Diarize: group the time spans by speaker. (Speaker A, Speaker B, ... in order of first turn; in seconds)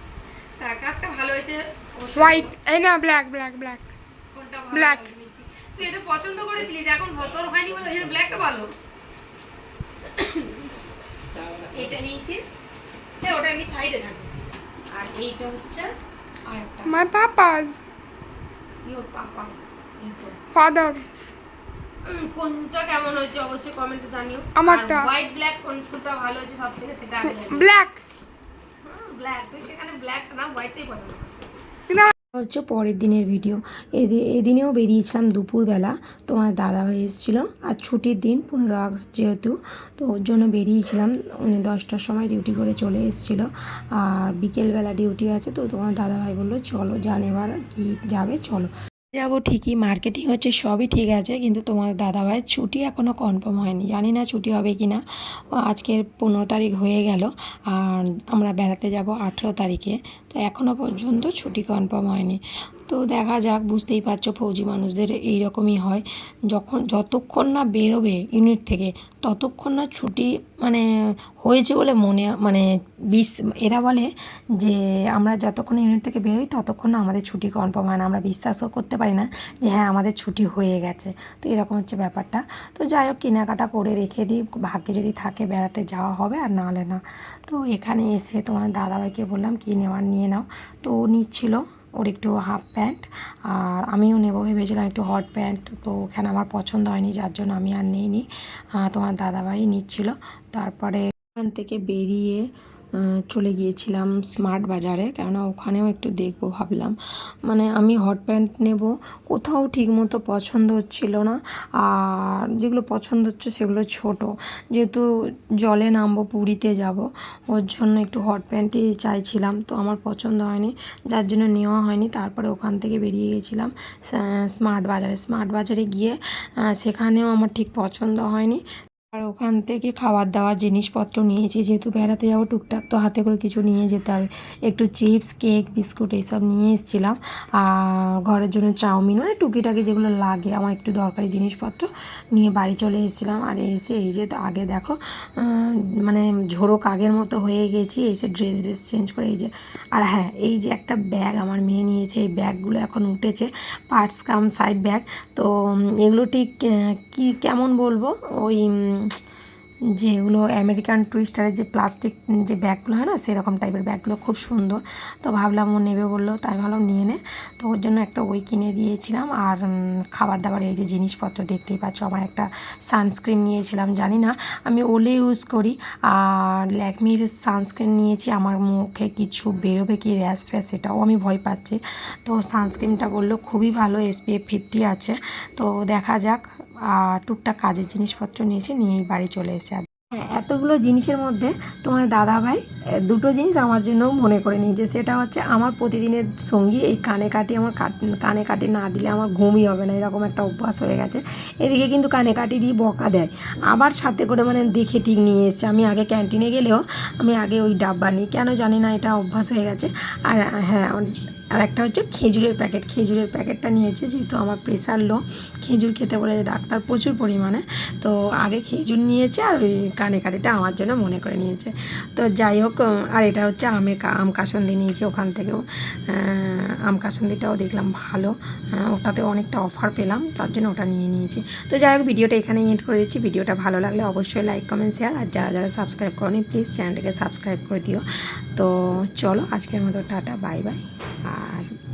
Speaker A: 0.6-2.5, 4.3-8.7, 10.0-10.7, 11.6-12.4, 13.2-14.3, 14.9-15.9, 16.5-17.0, 18.8-20.4, 22.0-27.7, 28.8-31.5
Speaker B: 2.1-3.9, 4.7-5.1, 16.9-17.8, 20.5-21.3, 24.5-25.1, 27.3-28.0
Speaker C: 32.3-55.0, 55.6-70.8, 71.4-98.2, 98.8-102.4, 103.0-115.0, 115.6-159.1, 160.0-169.6, 170.1-238.0, 238.6-241.7